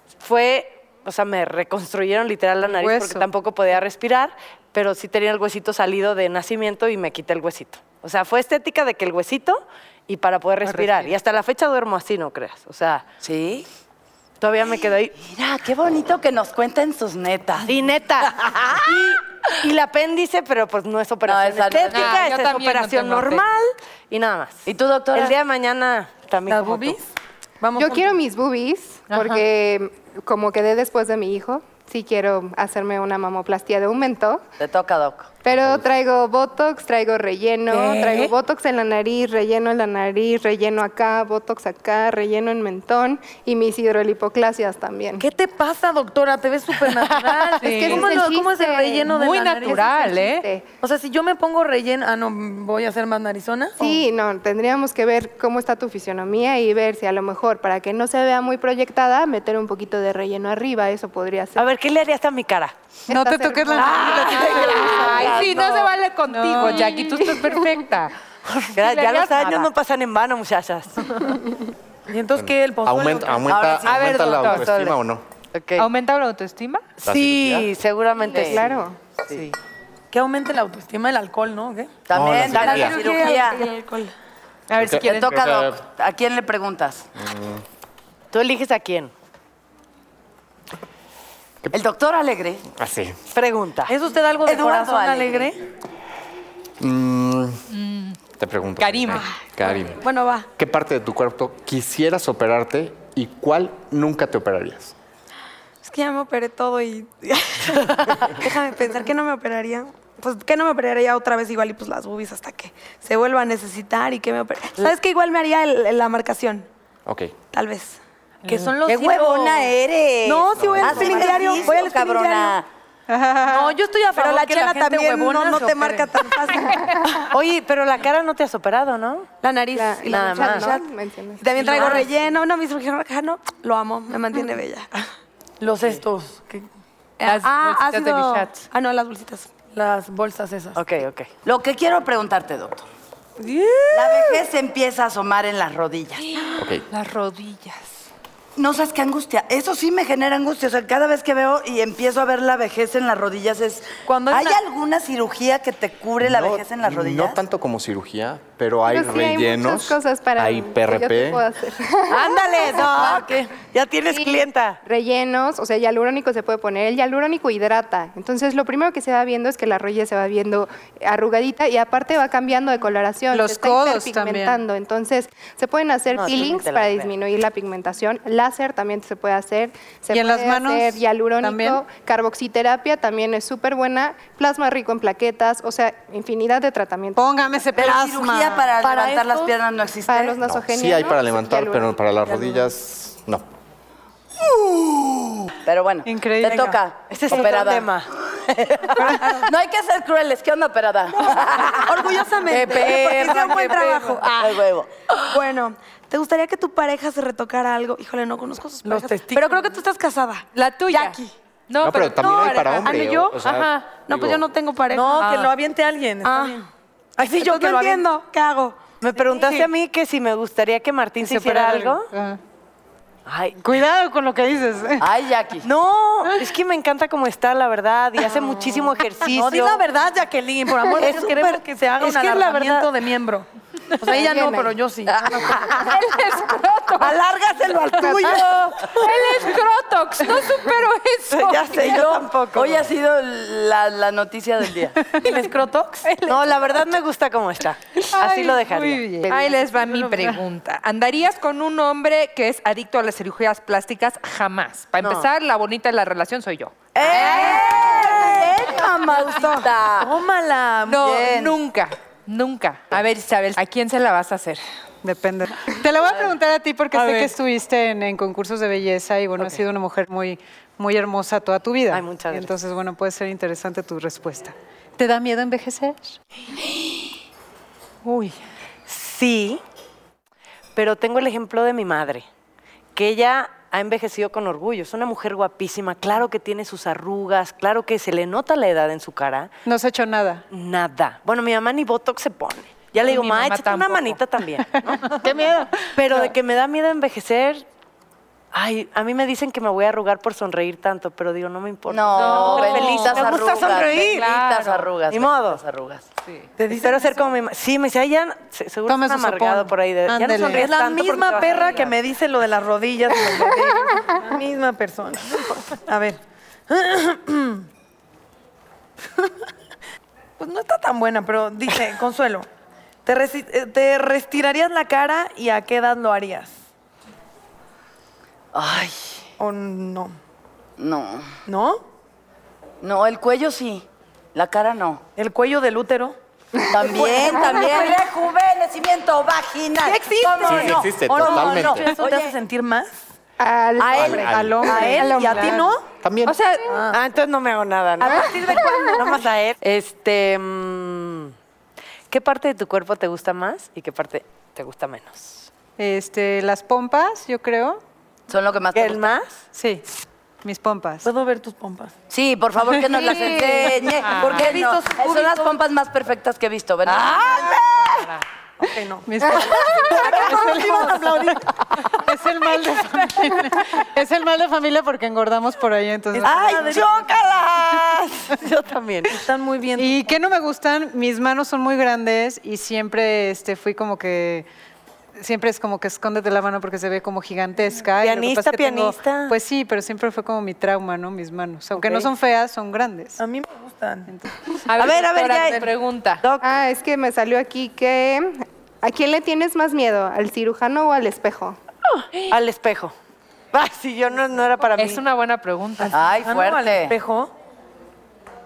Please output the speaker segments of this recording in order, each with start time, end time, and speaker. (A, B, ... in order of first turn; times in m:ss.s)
0:00.2-0:13.0 A
0:02.6-0:03.3 B
0:13.2-0:13.7 C
0:14.4-0:15.2 A
0:15.2-0:18.9 C
0:17.6-0:27.0 A
0:21.2-0:22.2 C
0:21.9-0:23.4 D
0:24.7-0:25.4 C
0:26.5-0:27.0 E
0:27.6-0:28.2 E
0:27.8-0:34.4 F
0:29.1-0:29.4 D
0:34.6-0:35.3 C
0:35.4-0:45.2 F
0:37.8-0:38.3 E
0:45.2-0:49.9 E
0:47.6-0:48.2 D
0:47.6-0:49.1 F
0:49.1-0:50.4 D
0:49.8-0:50.7 F
0:50.8-0:54.0 E
0:53.8-1:01.7 F
1:01.6-1:02.7 A
1:03.1-1:05.3 F
1:03.1-1:07.3 B
1:03.8-1:05.7 A
1:04.6-1:08.1 D
1:08.6-1:11.4 A
1:08.7-1:09.7 D
1:12.1-1:13.8 E
1:12.4-1:15.2 G
1:13.5-1:14.6 C
1:13.8-1:14.9 D
1:15.5-1:15.9 A
1:15.8-1:16.9 D
1:17.0-1:19.4 A
1:17.0-1:17.7 G
1:18.3-1:18.6 C
1:18.3-1:19.0 F
1:20.1-1:21.9 E
1:22.1-1:23.6 C
1:22.1-1:23.0 G
1:22.6-1:24.1 H
1:22.8-1:23.4 E
1:24.7-1:25.4 D
1:24.8-1:25.8 G
1:24.9-1:27.1 C
1:27.2-1:27.6 G
1:28.3-1:29.1 A
1:31.7-1:32.6 C
1:32.8-1:33.2 G
1:33.3-1:33.9 A
1:33.9-1:35.6 E
1:34.4-1:35.5 C
1:36.8-1:37.6 G
1:37.7-1:38.2 D
1:38.4-1:40.0 G
1:38.8-1:39.3 D
1:40.0-1:40.5 H
1:40.6-1:44.9 G
1:45.8-1:56.7 H
1:57.1-1:57.4 G
1:57.5-1:58.0 H
1:58.5-1:58.7 B
1:58.5-1:59.7 E
1:58.9-2:02.7 C
2:00.2-2:02.5 E
2:00.5-2:01.2 G
2:00.9-2:02.5 H
2:03.1-2:03.7 B
2:03.4-2:07.2 E
2:03.9-2:06.7 H
2:07.3-2:09.3 A
2:09.4-2:10.7 E
2:09.8-2:12.0 F
2:10.1-2:10.7 A
2:11.4-2:14.9 H
2:11.5-2:12.1 E
2:15.6-2:16.6 E
2:17.2-2:19.7 H
2:17.3-2:18.7 D
2:19.6-2:20.8 E
2:20.8-2:21.3 A
2:21.4-2:22.8 C
2:23.4-2:24.3 E
2:23.9-2:26.3 C
2:26.6-2:26.8 G
2:26.9-2:28.0 D
2:28.6-2:37.4 C
2:34.0-2:34.6 E
2:36.2-2:41.4 G
2:38.9-2:43.1 F
2:42.1-2:44.8 A
2:42.6-2:43.4 E
2:44.1-3:07.2 F
2:53.3-2:54.6 B
2:56.1-2:57.1 A
3:00.1-3:01.8 B
3:07.2-3:08.7 B
3:07.8-3:10.4 C
3:09.0-3:09.4 E
3:10.1-3:11.9 F
3:10.4-3:13.5 G
3:15.6-3:21.8 C
3:16.1-3:16.8 B
3:17.1-3:18.1 A
3:19.0-3:19.4 B
3:21.3-3:24.3 E
3:21.9-3:24.3 H
3:22.6-3:23.0 C
3:24.3-3:24.9 C
3:25.3-3:31.3 H
3:28.8-3:29.7 E
3:30.6-3:32.9 D
3:31.8-3:34.4 G
3:32.2-3:33.4 E
3:33.9-3:35.4 H
3:34.9-3:38.1 E
3:35.2-3:35.5 D
3:36.2-3:36.6 H
3:37.2-3:38.8 H
3:39.0-3:42.1 A
3:39.2-3:39.7 E
3:41.2-3:42.4 B
3:43.3-3:43.6 A
3:43.6-3:45.1 B
3:45.0-3:45.7 C
3:45.6-3:49.8 A
3:49.2-3:53.5 E
3:51.0-3:52.9 A
3:54.0-3:55.7 E
3:54.1-3:54.7 F
3:55.7-3:57.2 D
3:57.5-3:59.1 E
3:57.6-3:58.4 H
3:58.9-4:02.2 D
4:01.4-4:02.7 A
4:01.8-4:02.1 E
4:02.5-4:05.1 C
4:05.1-4:06.3 E
4:06.3-4:09.3 A
4:08.2-4:09.2 B
4:09.3-4:17.0 D
4:09.5-4:10.4 E
4:15.0-4:15.3 A
4:17.0-4:20.1 C
4:20.0-4:21.4 E
4:20.9-4:24.6 D
4:21.1-4:21.5 C
4:25.0-4:36.2 B
4:27.0-4:27.3 D
4:31.9-4:32.6 A
4:38.0-4:38.4 D
4:38.9-4:39.6 A
4:40.8-4:42.3 A
4:43.0-4:49.5 A
4:49.7-4:50.4 B
4:50.5-4:57.7 A
4:53.0-4:54.2 D
4:58.5-5:04.2 A
5:01.9-5:06.0 C
5:02.2-5:04.8 D
5:02.4-5:02.9 E
5:05.1-5:05.6 A
5:06.6-5:07.2 E
5:06.7-5:11.8 A
5:08.9-5:10.7 B
5:10.4-5:17.7 E
5:11.4-5:11.9 D
5:20.4-5:22.5 E
5:23.0-5:26.6 E
5:28.5-5:29.2 C
5:29.4-5:30.2 E
5:30.8-5:31.3 C
5:31.5-5:31.8 E
5:32.8-5:35.0 C
5:35.2-5:36.2 E
5:36.7-5:42.4 C
5:36.8-5:37.9 E
5:39.8-5:43.0 E
5:40.4-5:41.9 G
5:43.4-5:45.7 F
5:43.9-5:44.8 G
5:44.1-5:45.9 E
5:44.3-5:45.6 B
5:44.7-5:45.2 C
5:46.0-5:46.4 G
5:46.3-5:51.3 A
5:46.7-5:47.0 E
5:48.0-5:48.9 E
5:52.1-5:55.5 A
5:55.8-5:57.8 B
5:58.3-5:59.0 C
5:58.7-5:59.4 A
5:59.5-5:59.8 B
6:00.4-6:01.1 B
6:01.0-6:01.9 E
6:02.1-6:07.6 C
6:02.9-6:05.6 E
6:07.1-6:08.0 E
6:08.6-6:11.9 E
6:09.1-6:11.4 B
6:11.9-6:16.9 B
6:16.1-6:17.2 E
6:16.3-6:19.1 A
6:19.1-6:20.2 E
6:19.8-6:24.5 B
6:25.2-6:33.2 B
6:28.0-6:29.3 A
6:31.8-6:32.1 E
6:33.2-6:34.1 E
6:34.7-6:36.2 D
6:34.8-6:35.7 A
6:36.2-6:36.5 A
6:36.4-6:41.6 F
6:42.2-6:42.9 A
6:43.5-6:45.0 A
6:44.8-6:45.9 D
6:45.8-6:47.3 E
6:45.9-6:47.0 C